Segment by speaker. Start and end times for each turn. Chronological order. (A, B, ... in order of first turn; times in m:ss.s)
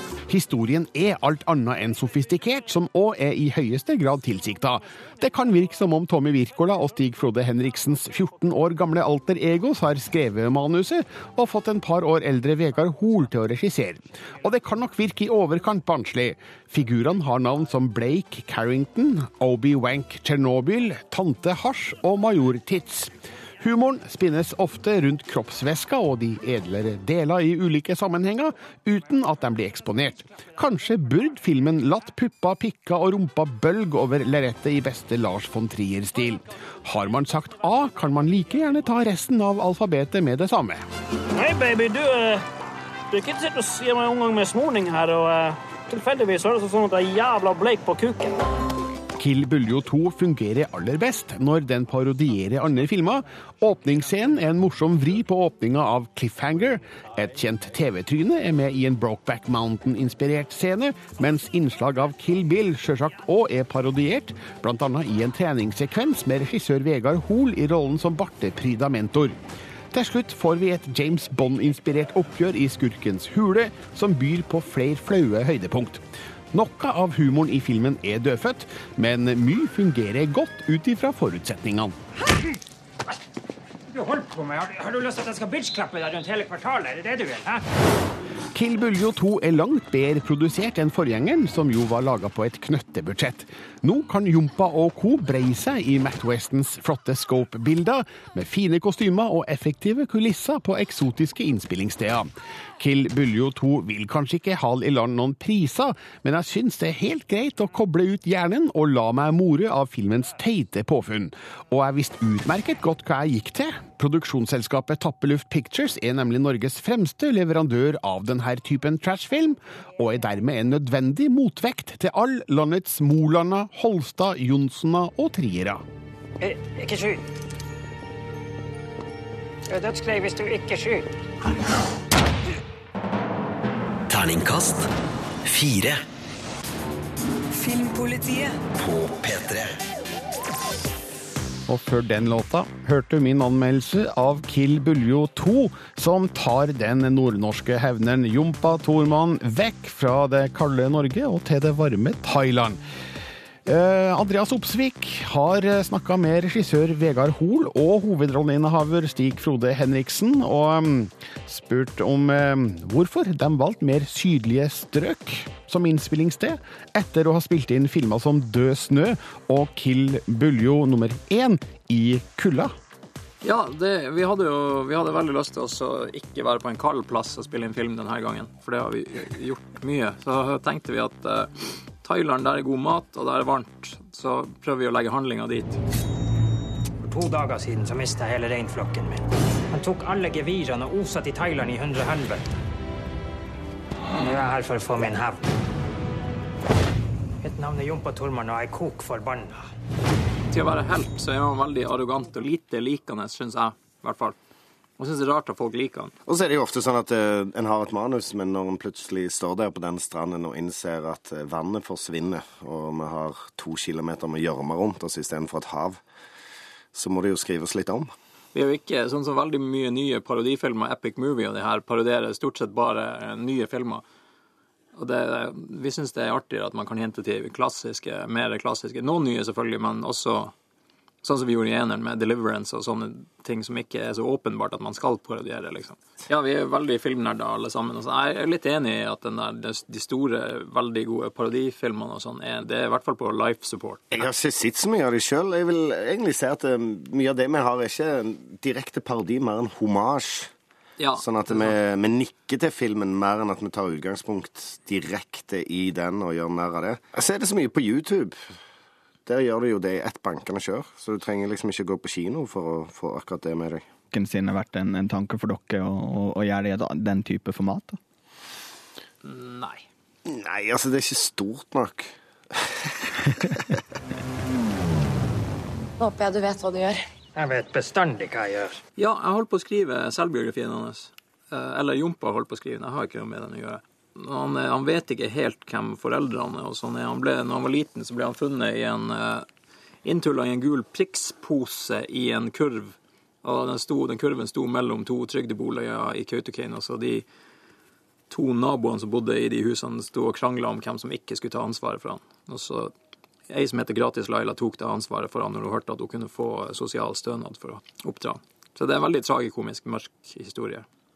0:00.3-0:40.8 A
0:41.4-0:42.4 B
0:43.1-0:48.3 B
0:49.2-1:09.4 A
1:09.9-1:22.0 A
1:23.9-1:27.6 C
1:28.5-2:05.8 A
2:06.4-2:07.2 C
2:09.7-2:11.1 C
2:14.1-2:14.9 D
2:15.4-2:16.0 D
2:17.5-2:18.6 E
2:18.8-2:19.8 D
2:21.7-2:32.8 A
2:33.6-2:52.7 A
2:53.4-3:05.8 F
3:07.0-3:12.5 C
3:14.2-3:15.4 C
3:17.4-3:19.6 C
3:20.5-3:24.4 F
3:25.0-3:26.1 F
3:26.3-3:36.0 G
3:36.9-3:38.1 G
3:38.5-3:44.0 F
3:44.9-3:50.5 F
3:51.2-4:04.2 F
4:04.1-4:10.5 G
4:11.0-4:11.8 F
4:11.2-4:18.4 G
4:19.2-4:23.9 G
4:24.1-4:28.0 H
4:29.2-4:29.8 F
4:30.2-4:33.0 G
4:36.0-4:37.0 E
4:37.3-4:38.8 C
4:39.0-4:49.5 F
4:50.0-4:57.2 F
4:58.3-5:02.9 F
5:03.5-5:10.8 F